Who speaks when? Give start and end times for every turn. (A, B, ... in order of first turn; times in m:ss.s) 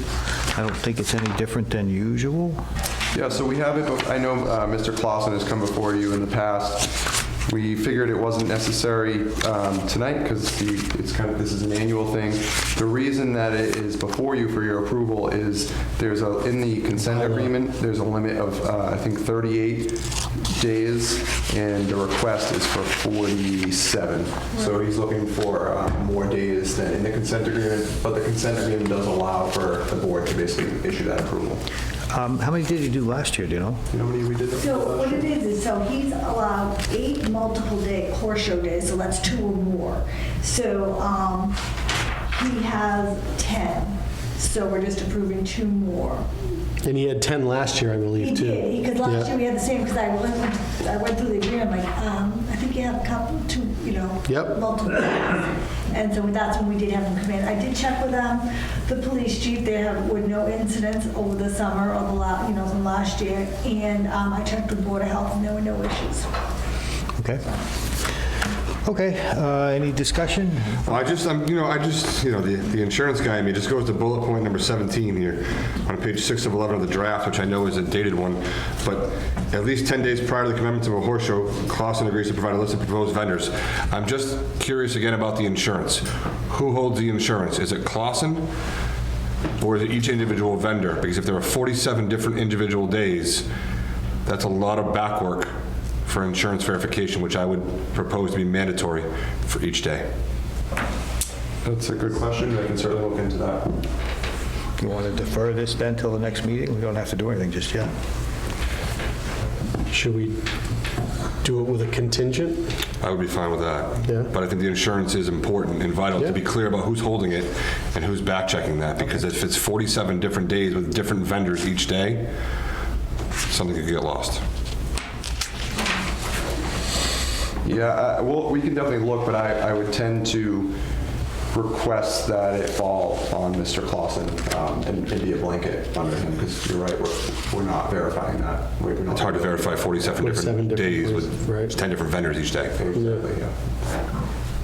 0:00.4-0:02.6 A
0:03.1-0:31.6 B
0:17.1-0:17.5 C
0:32.1-0:33.8 A
0:33.9-0:35.3 B
0:34.5-0:41.6 D
0:42.2-0:46.3 D
0:46.8-0:49.3 C
0:48.2-1:06.3 D
1:07.2-1:07.4 A
1:08.8-1:11.0 A
1:10.8-1:28.4 E
1:29.6-1:33.5 E
1:34.2-1:35.5 E
1:36.0-1:40.1 E
1:41.6-1:43.8 B
1:44.8-1:47.9 A
1:49.9-1:50.4 C
1:51.4-1:52.6 C
1:53.0-2:02.3 E
2:03.5-2:04.4 E
2:07.6-2:10.8 B
2:11.5-2:20.0 B
2:19.1-2:22.8 E
2:20.2-2:21.7 C
2:20.9-2:21.3 B
2:22.8-2:23.6 B